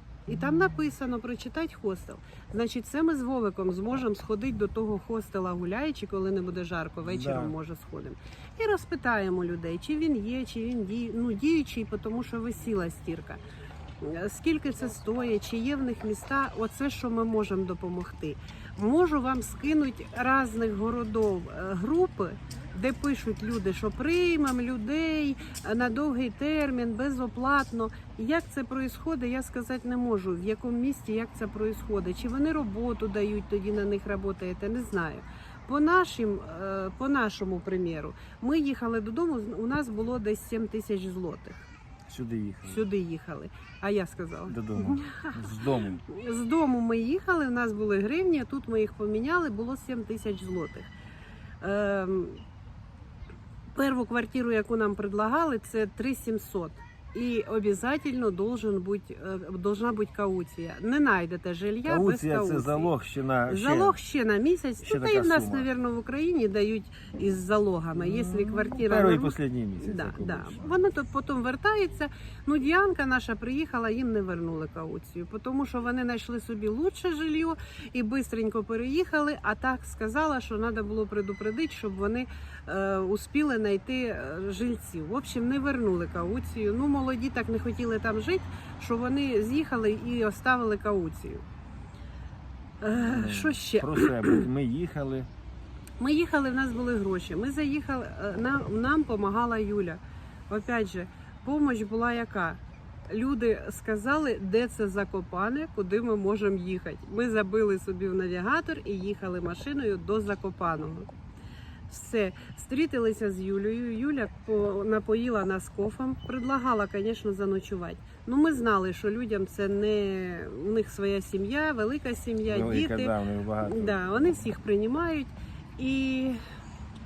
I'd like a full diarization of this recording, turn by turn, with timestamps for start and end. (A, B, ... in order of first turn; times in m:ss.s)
0:00.3-0:13.4 A
0:07.0-0:07.5 B
0:14.0-0:41.7 A
0:42.1-0:42.9 B
0:42.6-0:45.4 A
0:44.5-0:46.0 B
0:46.0-0:50.9 A
0:51.6-0:52.4 A
0:53.8-1:02.9 A
1:01.9-1:04.0 B
1:03.5-1:31.4 A
1:04.8-1:05.7 B
1:08.0-1:10.8 B
1:32.8-1:34.4 A
1:33.0-1:35.3 B
1:36.0-1:51.1 A
1:51.9-2:06.4 A
2:02.5-2:04.5 B